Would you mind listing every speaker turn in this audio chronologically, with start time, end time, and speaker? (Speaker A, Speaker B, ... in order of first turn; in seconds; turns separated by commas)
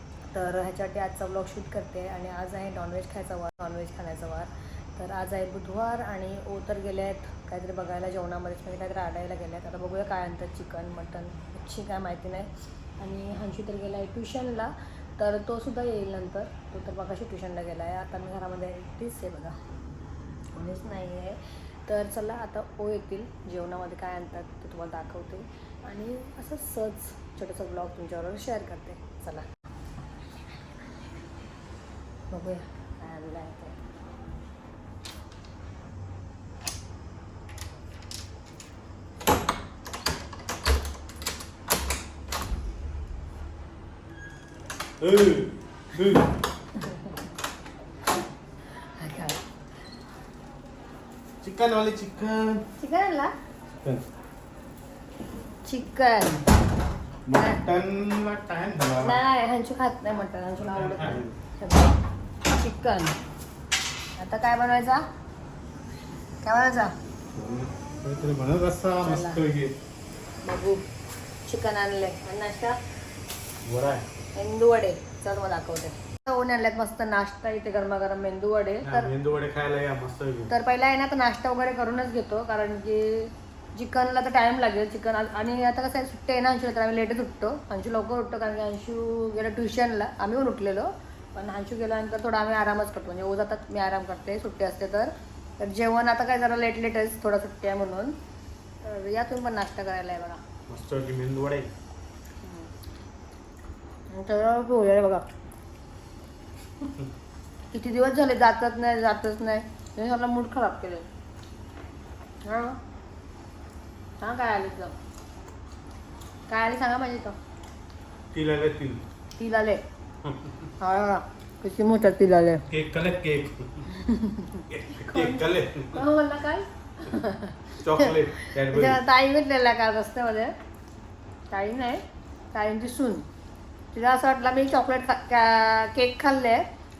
Speaker A: 0.3-19.6, Speaker A: 20.5-29.5, Speaker A: 32.3-33.7, Speaker B: 45.0-46.3, Speaker A: 46.8-47.1, Speaker A: 48.9-49.4, Speaker B: 51.4-52.6, Speaker A: 52.8-53.3, Speaker A: 55.6-56.5, Speaker B: 57.3-59.2, Speaker A: 59.0-61.9, Speaker B: 60.6-61.4, Speaker A: 62.5-63.2, Speaker A: 64.2-65.0, Speaker A: 66.4-66.9, Speaker B: 67.3-69.7, Speaker A: 69.0-69.4, Speaker A: 70.4-70.8, Speaker A: 71.5-72.8, Speaker B: 73.6-74.1, Speaker A: 74.3-79.1, Speaker B: 78.8-80.5, Speaker A: 80.5-98.1, Speaker A: 98.8-100.4, Speaker B: 100.7-101.7, Speaker A: 102.4-102.7, Speaker A: 104.1-105.2, Speaker A: 107.7-111.0, Speaker A: 112.4-112.8, Speaker A: 114.2-114.9, Speaker A: 116.5-117.3, Speaker B: 118.3-119.0, Speaker A: 119.4-119.8, Speaker B: 120.2-120.6, Speaker A: 120.8-122.7, Speaker B: 122.7-123.9, Speaker A: 123.9-130.5, Speaker B: 124.7-126.0, Speaker B: 127.8-129.0, Speaker A: 131.5-133.2, Speaker A: 133.9-136.6